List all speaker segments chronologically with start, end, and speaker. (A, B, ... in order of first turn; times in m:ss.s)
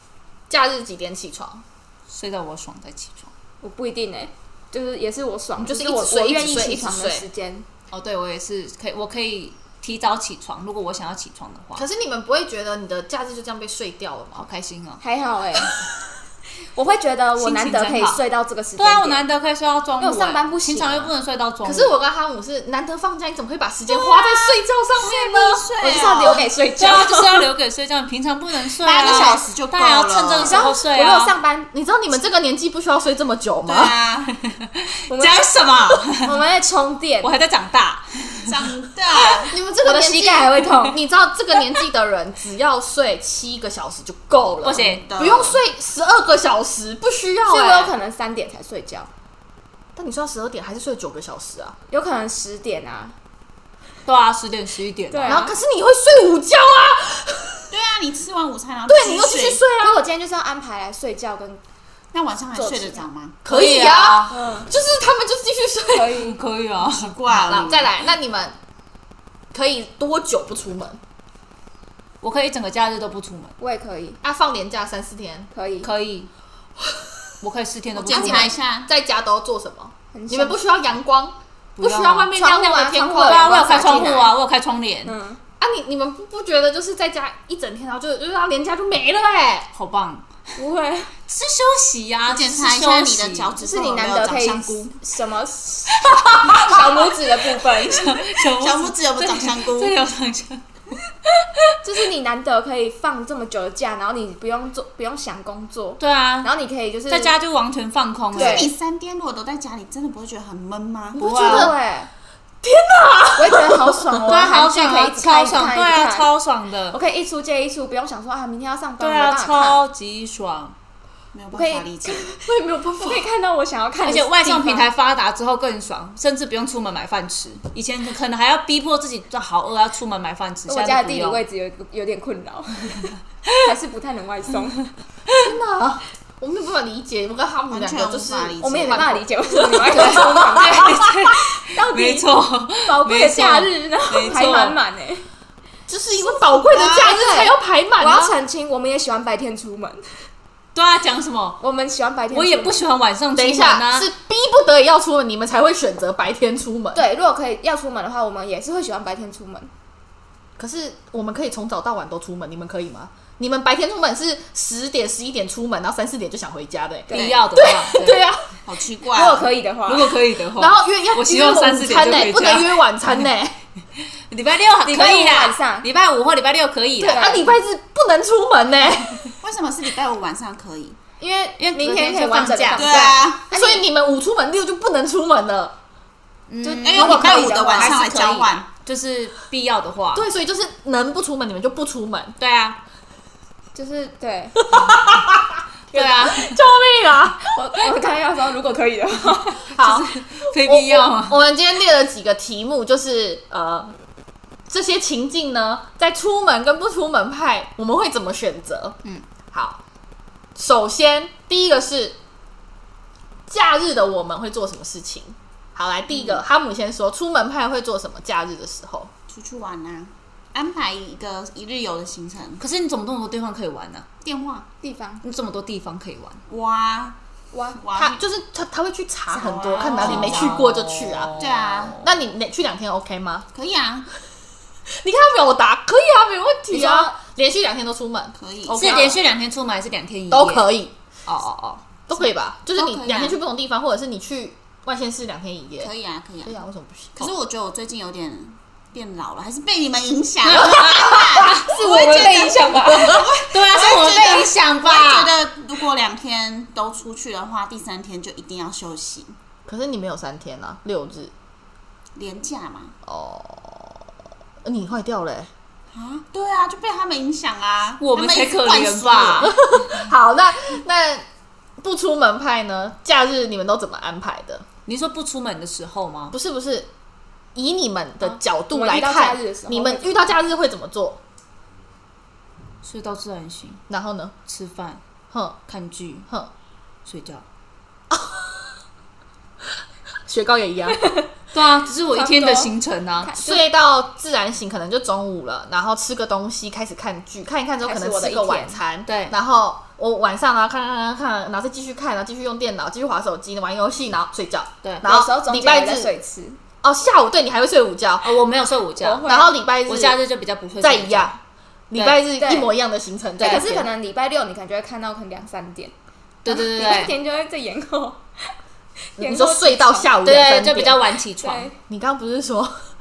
0:00.5-0:01.6 A
0:02.1-0:03.3 B
0:03.6-0:07.7 C
0:05.6-0:07.2 A
0:07.9-0:11.8 B
0:11.8-0:14.5 A
0:14.4-0:15.0 B
0:15.0-0:15.7 C
0:16.7-0:19.2 C
0:17.4-0:18.2 B
0:18.8-0:22.0 B
0:20.0-0:21.1 C
0:21.6-0:26.4 A
0:24.0-0:26.5 D
0:25.8-0:27.5 C
0:26.8-0:31.3 B
0:28.8-0:30.7 D
0:29.0-0:29.4 C
0:30.4-0:31.7 C
0:31.7-0:33.9 A
0:33.6-0:34.3 D
0:34.4-0:36.4 B
0:35.1-0:35.5 C
0:36.1-0:37.3 C
0:37.2-0:38.6 B
0:38.5-0:39.6 D
0:39.5-0:47.9 A
0:39.8-0:41.0 C
0:44.6-0:45.1 B
0:44.8-0:45.6 D
0:47.5-0:49.1 C
0:50.0-0:51.8 A
0:51.9-0:53.2 C
0:54.0-0:55.4 B
0:55.1-0:55.6 C
0:55.3-0:57.7 A
0:57.7-0:59.6 D
0:58.9-1:00.0 A
0:59.8-1:01.6 C
1:02.1-1:03.4 D
1:02.5-1:03.1 C
1:03.4-1:06.2 A
1:03.5-1:04.3 B
1:04.3-1:04.7 C
1:05.9-1:06.4 C
1:06.2-1:07.2 B
1:06.8-1:08.1 D
1:07.3-1:08.6 A
1:09.5-1:11.0 A
1:12.2-1:13.5 B
1:13.6-1:14.2 C
1:14.2-1:15.5 A
1:15.5-1:15.9 C
1:15.8-1:16.3 B
1:17.4-1:18.6 B
1:18.0-1:24.2 A
1:18.0-1:18.9 D
1:20.1-1:20.6 C
1:21.8-1:22.4 B
1:22.3-1:24.3 C
1:23.2-1:25.2 B
1:25.1-1:25.4 C
1:25.6-1:29.7 A
1:29.7-1:30.3 B
1:30.6-1:31.1 C
1:31.3-1:33.5 B
1:32.3-1:35.0 D
1:33.6-1:38.3 C
1:36.2-1:37.0 B
1:37.6-1:40.6 B
1:38.5-1:40.0 D
1:41.8-1:47.4 C
1:46.0-1:46.5 B
1:47.1-1:48.7 B
1:48.3-1:51.2 D
1:48.4-1:48.7 C
1:51.2-1:51.8 A
1:51.2-1:51.7 B
1:51.4-1:52.1 C
1:52.6-1:54.5 A
1:53.4-1:56.3 C
1:54.3-1:57.0 B
1:56.9-1:59.8 C
1:59.0-2:00.8 B
2:01.3-2:02.3 D
2:01.5-2:02.3 C
2:02.4-2:03.3 A
2:03.0-2:04.9 C
2:04.0-2:11.4 B
2:10.7-2:14.9 C
2:15.4-2:19.1 A
2:17.7-2:19.2 D
2:18.6-2:21.1 C
2:19.7-2:20.9 A
2:19.9-2:24.8 B
2:21.7-2:22.3 C
2:22.8-2:25.2 C
2:25.9-2:28.4 A
2:26.7-2:27.2 D
2:26.9-2:30.0 C
2:30.8-2:31.6 B
2:31.6-2:32.8 C
2:32.3-2:34.1 B
2:33.4-2:37.0 A
2:36.9-2:39.7 C
2:40.6-2:48.5 A
2:47.1-2:47.4 C
2:47.1-2:48.2 B
2:48.6-2:49.5 D
2:49.1-2:50.2 C
2:49.9-2:52.9 B
2:50.6-2:53.6 A
2:54.3-2:57.3 B
2:54.8-2:55.9 C
2:57.0-2:59.3 A
2:57.0-2:57.6 C
2:59.4-3:01.0 D
3:01.2-3:03.8 C
3:01.6-3:03.1 B
3:02.7-3:03.5 D
3:03.5-3:05.7 A
3:06.5-3:10.3 B
3:06.6-3:08.0 C
3:06.8-3:08.7 D
3:10.2-3:12.4 A
3:12.4-3:12.8 B
3:13.8-3:14.6 C
3:14.6-3:17.6 A
3:14.8-3:15.1 B
3:15.9-3:16.6 B
3:17.5-3:19.7 C
3:19.8-3:23.9 A
3:19.8-3:21.4 B
3:24.7-3:29.0 A
3:29.5-3:29.8 A
3:30.6-3:32.2 A
3:33.5-3:39.1 A
3:36.2-3:36.4 D
3:39.3-3:42.6 D
3:42.6-3:44.1 B
3:44.2-3:44.7 D
3:44.8-3:45.2 C
3:45.2-3:46.4 B
3:46.5-3:47.2 D
3:47.5-3:47.8 C
3:47.7-3:48.2 D
3:48.0-3:51.4 A
3:49.3-3:50.7 D
3:49.8-3:52.1 B
3:51.3-3:52.0 D
3:52.0-3:53.5 A
3:53.5-3:54.1 D
3:55.0-3:59.2 A
3:56.7-3:57.1 B
3:58.4-3:58.9 D
3:58.7-4:00.7 B
4:00.3-4:00.9 A
4:01.3-4:01.8 B
4:02.1-4:05.9 A
4:02.7-4:03.4 D
4:05.8-4:06.6 D
4:06.4-4:07.3 A
4:07.2-4:19.4 D
4:10.4-4:15.4 B
4:10.5-4:13.3 A
4:19.7-4:21.3 A
4:22.2-4:23.0 D
4:23.0-4:24.0 A
4:24.6-4:25.5 A
4:25.9-4:29.6 D
4:28.0-4:29.7 B
4:29.4-4:31.2 A
4:31.8-4:34.6 A
4:34.9-4:36.4 B
4:36.3-4:36.9 A
4:37.6-4:41.2 A
4:38.2-4:40.2 C
4:42.8-4:43.8 B
4:43.9-4:44.3 A
4:44.5-4:45.0 B
4:45.3-4:45.6 A
4:45.7-4:46.3 B
4:47.1-4:47.4 B
4:48.1-4:48.6 A
4:50.3-4:51.0 A
4:51.0-4:51.3 C
4:51.5-4:53.4 B
4:52.1-4:52.7 C
4:53.2-4:53.6 C
4:53.4-5:06.1 A
4:57.8-4:58.8 C
4:59.1-4:59.3 B
5:05.0-5:06.6 C
5:06.8-5:08.3 A
5:08.2-5:09.3 B
5:09.0-5:09.6 C
5:09.2-5:10.2 A
5:09.9-5:11.3 B
5:10.8-5:13.9 A
5:12.0-5:12.7 C
5:13.4-5:13.7 B
5:13.4-5:15.9 C
5:16.4-5:17.1 B
5:16.5-5:18.2 C
5:19.2-5:20.1 C
5:19.2-5:21.0 A
5:20.2-5:21.7 B
5:21.4-5:21.8 C
5:21.9-5:22.8 A